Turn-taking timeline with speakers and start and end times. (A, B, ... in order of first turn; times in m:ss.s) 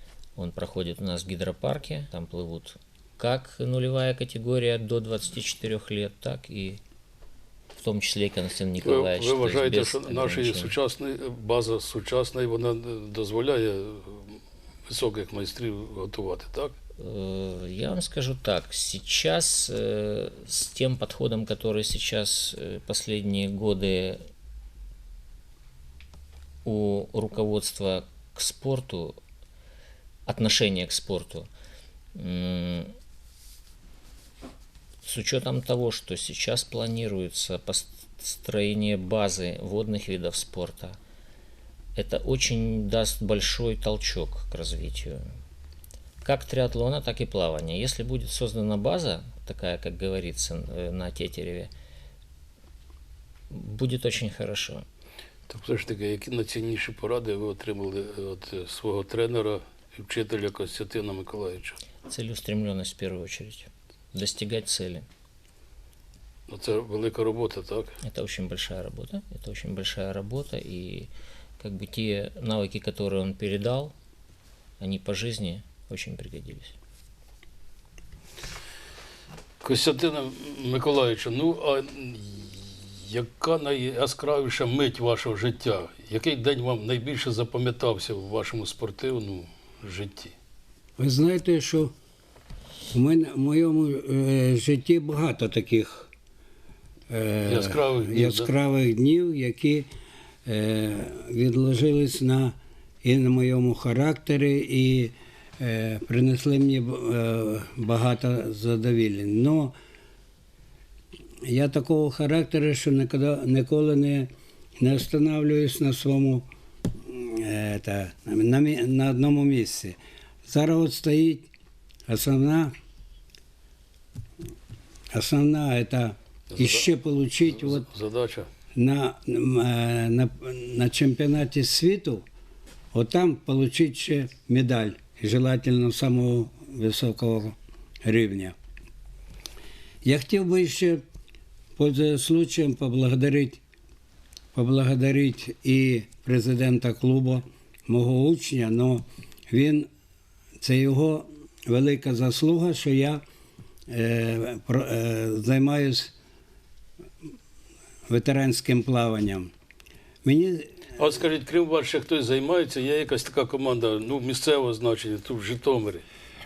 0:00.4-0:06.8 A
0:07.8-0:10.7 A
0:08.8-0:16.7 B
0:17.0-0:24.2 A
0:26.6-0:29.2 A
0:30.3-0:31.5 A
0:32.1-0:32.9 A
0:35.0-0:41.0 A
0:42.0-0:45.2 A
0:46.2-0:51.7 A
0:53.5-0:54.8 A
0:55.5-1:01.8 B
1:02.0-1:05.0 A
1:06.5-1:08.0 B
1:08.0-1:11.1 A
1:11.6-1:13.9 A
1:14.8-1:16.7 A
1:19.6-1:30.3 B
1:31.0-1:31.9 C
1:32.9-1:36.1 C
1:37.1-1:39.9 C
1:37.4-1:38.5 B
1:40.4-1:49.7 C
1:51.4-2:01.5 C
2:02.1-2:02.7 C
2:05.1-2:07.8 C
2:06.5-2:06.9 B
2:07.4-2:08.5 B
2:08.7-2:12.2 C
2:12.9-2:18.6 C
2:20.0-2:21.0 C
2:21.8-2:23.6 C
2:24.5-2:29.9 C
2:30.6-2:33.2 C
2:33.9-2:36.1 C
2:38.1-2:39.5 C
2:40.2-2:40.8 C
2:41.0-2:46.0 B